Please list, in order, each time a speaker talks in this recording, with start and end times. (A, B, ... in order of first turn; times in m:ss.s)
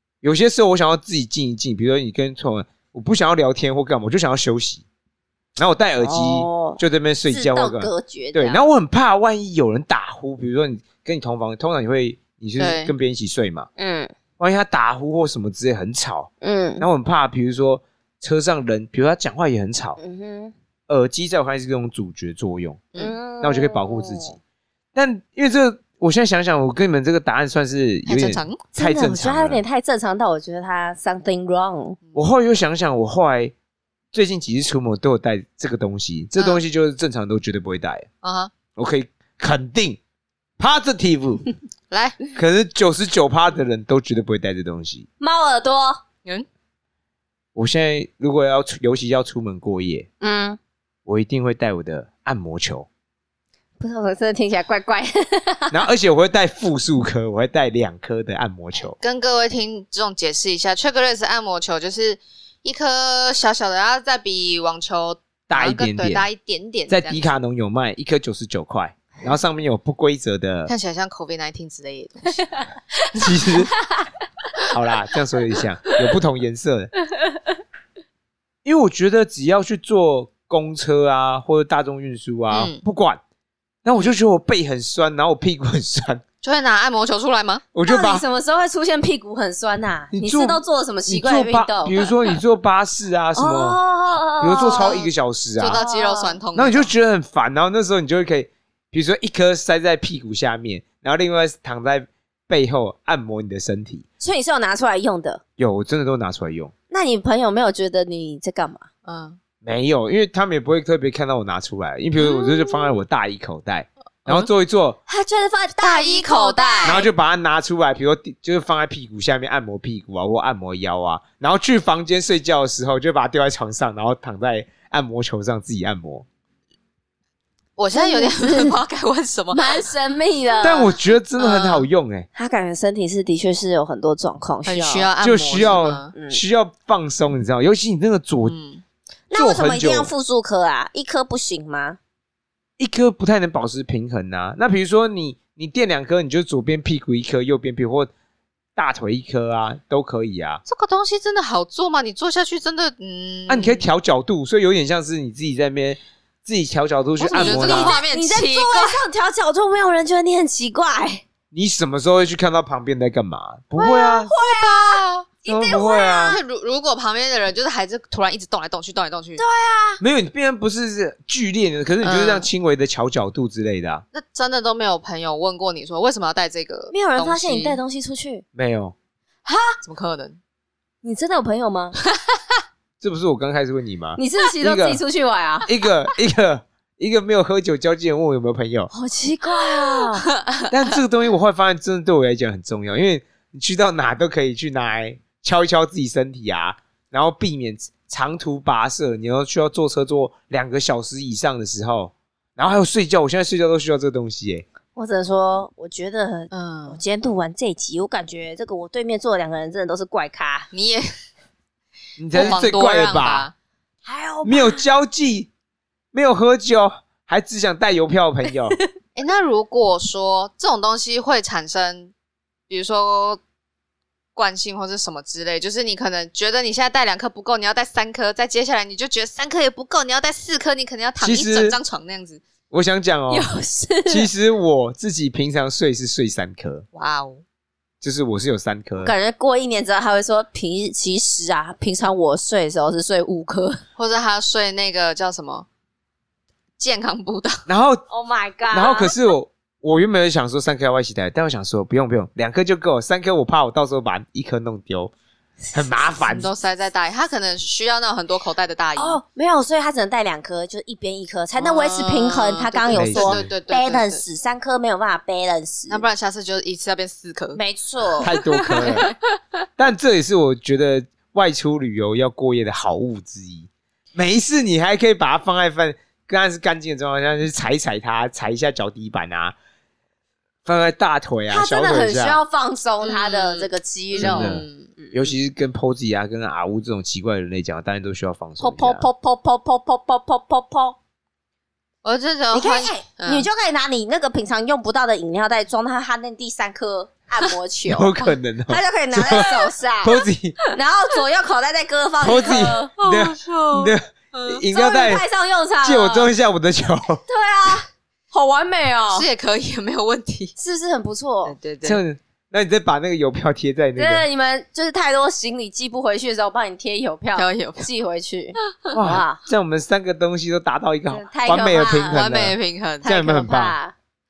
0:00.2-0:04.8 A
0:05.6-0:13.7 A
0:06.0-0:08.6 B
0:12.6-0:12.9 C
0:13.8-0:14.1 B
0:14.4-0:20.0 A
0:16.4-0:16.8 B
0:20.0-0:20.5 B
0:20.9-0:24.4 A
0:23.0-0:24.3 B
0:24.9-0:29.6 A
0:28.1-0:28.6 C
0:28.7-0:32.0 B
0:32.0-0:32.3 C
0:32.1-0:33.5 A
0:34.1-0:38.1 A
0:36.4-0:36.6 C
0:38.2-0:38.5 C
0:38.8-0:40.0 A
0:40.6-0:41.5 A
0:41.9-0:42.2 C
0:42.3-0:45.1 A
0:45.2-0:46.0 B
0:47.5-0:50.1 A
0:50.2-0:50.6 B
0:51.0-0:52.9 A
0:53.8-0:55.8 B
0:55.7-0:59.0 A
0:59.0-1:07.3 C
1:05.5-1:06.3 A
1:06.9-1:10.7 A
1:10.7-1:12.7 C
1:13.1-1:13.7 A
1:14.7-1:16.9 A
1:18.6-1:23.2 A
1:22.5-1:22.8 C
1:23.8-1:26.2 A
1:26.4-1:27.6 C
1:27.7-1:28.2 A
1:27.8-1:32.0 B
1:30.1-1:33.8 A
1:33.4-1:35.1 B
1:34.4-1:35.8 A
1:34.6-1:35.0 C
1:35.6-1:36.9 C
1:35.7-1:36.4 B
1:36.5-1:44.0 A
1:44.2-1:45.4 B
1:45.6-1:46.7 A
1:46.9-1:48.9 B
1:49.0-1:49.4 C
1:49.6-1:55.0 A
1:52.2-1:53.0 B
1:55.1-1:57.1 B
1:55.8-1:57.1 C
1:56.8-2:06.2 A
2:07.8-2:09.9 C
2:07.9-2:08.8 B
2:09.5-2:11.0 B
2:10.6-2:12.3 A
2:10.6-2:11.9 C
2:12.3-2:15.1 B
2:14.6-2:16.1 C
2:15.2-2:18.5 A
2:16.1-2:16.4 B
2:18.4-2:18.8 C
2:19.3-2:22.0 B
2:19.3-2:20.1 A
2:22.8-2:28.1 A
2:28.8-2:30.6 A
2:30.6-2:33.9 C
2:33.5-2:37.9 A
2:37.2-2:41.2 B
2:37.2-2:39.0 C
2:41.5-2:44.3 A
2:43.8-2:46.4 B
2:44.4-2:45.2 C
2:45.4-2:46.4 A
2:46.2-2:49.4 C
2:49.4-2:50.0 B
2:50.0-2:54.0 A
2:52.0-2:52.5 C
2:54.1-2:57.8 C
2:56.9-2:58.4 B
2:58.5-2:58.9 A
2:59.4-2:59.8 B
2:59.8-3:00.4 C
3:01.0-3:02.0 B
3:03.0-3:05.0 A
3:04.2-3:05.7 B
3:05.6-3:08.9 A
3:08.9-3:10.2 B
3:10.7-3:24.6 A
3:24.9-3:30.7 B
3:26.5-3:27.0 C
3:30.7-3:31.1 C
3:32.2-3:33.5 A
3:32.3-3:33.5 C
3:32.4-3:32.6 B
3:34.0-3:34.8 B
3:34.4-3:35.5 A
3:36.1-3:38.8 A
3:39.1-3:42.1 C
3:42.7-3:43.4 C
3:44.3-3:52.4 C
3:51.2-3:51.8 A
3:52.7-3:53.5 A
3:53.3-3:54.3 B
3:54.0-3:56.8 A
3:56.9-3:57.4 C
3:58.0-3:59.1 A
3:59.0-4:03.8 B
4:04.0-4:05.7 C
4:06.8-4:07.6 C
4:07.7-4:08.0 A
4:08.1-4:09.1 B
4:08.7-4:15.1 A
4:15.7-4:16.5 A
4:16.3-4:19.2 C
4:19.0-4:26.1 B
4:21.5-4:24.2 C
4:22.9-4:23.5 A
4:25.9-4:29.2 C
4:27.5-4:29.0 B
4:28.2-4:29.1 A
4:29.8-4:39.5 A
4:40.6-4:42.4 A
4:41.5-4:45.2 B
4:43.0-4:44.9 C
4:44.2-4:49.1 A
4:48.6-4:51.0 B
4:52.0-4:53.5 C
4:52.5-5:03.0 B
4:57.8-5:00.6 A
5:02.2-5:05.2 A
5:02.5-5:04.6 C
5:04.7-5:06.3 B
5:05.8-5:07.2 A
5:07.3-5:09.3 B
5:09.1-5:10.5 C
5:10.6-5:11.5 B
5:11.4-5:12.0 C
5:11.8-5:14.2 A
5:14.0-5:19.4 B
5:17.3-5:17.8 C
5:18.9-5:23.8 A
5:21.1-5:22.3 B
5:22.1-5:23.1 C
5:23.0-5:23.9 B